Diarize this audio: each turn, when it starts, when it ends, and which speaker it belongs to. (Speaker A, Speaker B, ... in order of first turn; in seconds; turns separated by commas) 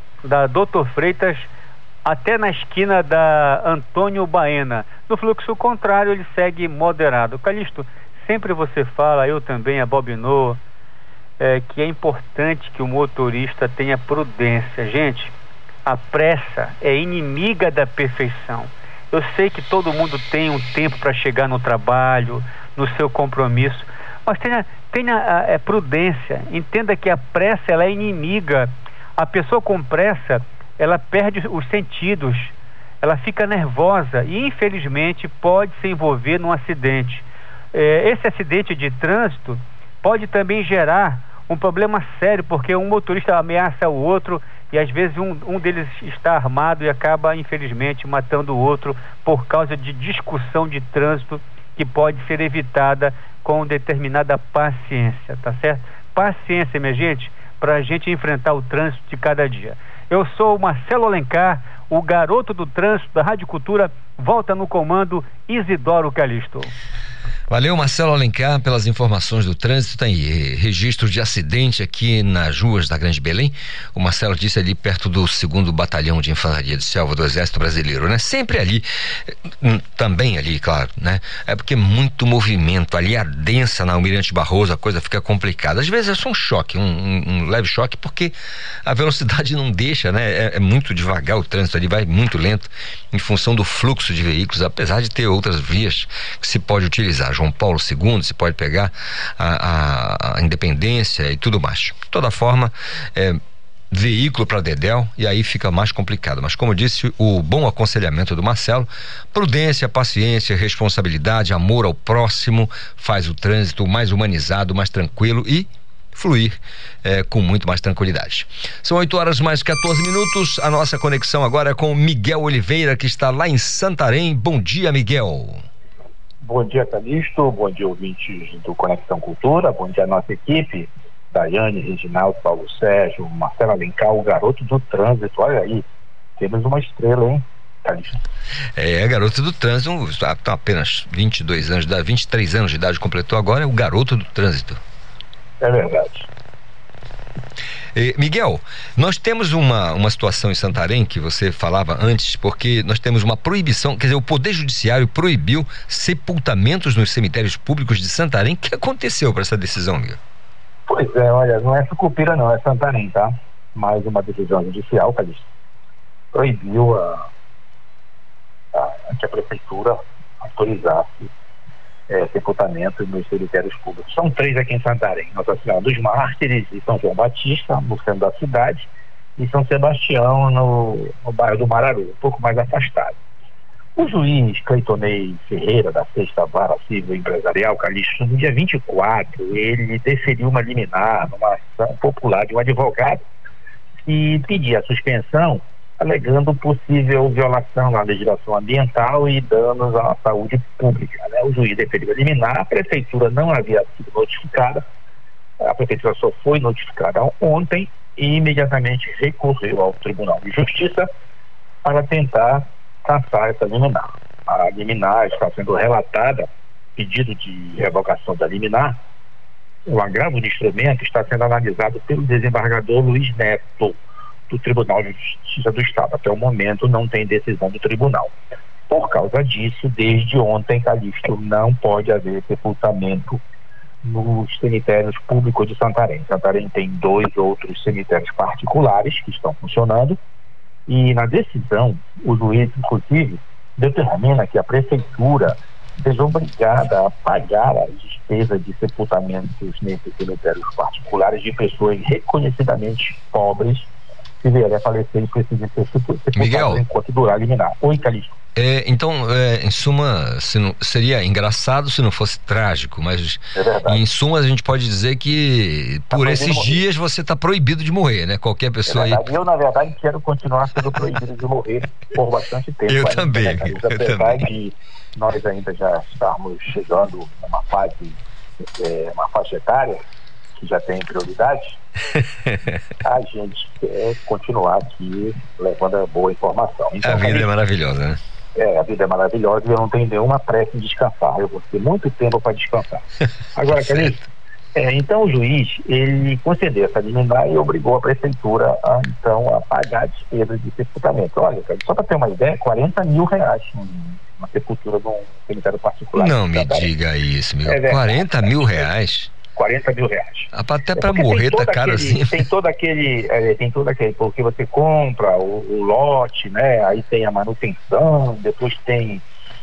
Speaker A: 0.2-1.5, Speaker A: 2.0-10.6, Speaker A: 11.4-15.3, Speaker A: 15.8-66.7, Speaker B: 67.5-103.4, Speaker B: 103.9-125.6, Speaker C: 126.4-135.8, Speaker C: 136.4-138.2, Speaker B: 138.8-144.8, Speaker C: 145.6-146.3, Speaker B: 147.9-160.2, Speaker C: 160.9-165.5, Speaker C: 166.3-167.3, Speaker C: 168.7-171.3, Speaker C: 172.1-183.2, Speaker C: 184.0-193.2, Speaker C: 194.0-204.8, Speaker C: 205.6-211.1, Speaker C: 211.8-219.0, Speaker C: 219.9-224.0, Speaker C: 224.5-228.3, Speaker C: 228.9-233.4, Speaker C: 234.0-240.2, Speaker C: 240.9-253.9, Speaker C: 254.4-258.4, Speaker B: 256.4-256.8, Speaker B: 258.6-269.2, Speaker C: 263.6-264.0, Speaker C: 266.1-266.8, Speaker C: 268.9-280.0, Speaker B: 272.9-274.5, Speaker C: 280.6-281.8, Speaker C: 283.0-287.5, Speaker B: 287.0-288.2, Speaker C: 288.6-293.0, Speaker C: 293.6-294.2, Speaker B: 293.8-294.2, Speaker C: 294.8-306.9, Speaker B: 306.2-309.3, Speaker C: 307.6-308.9, Speaker C: 309.5-319.2, Speaker B: 310.5-312.4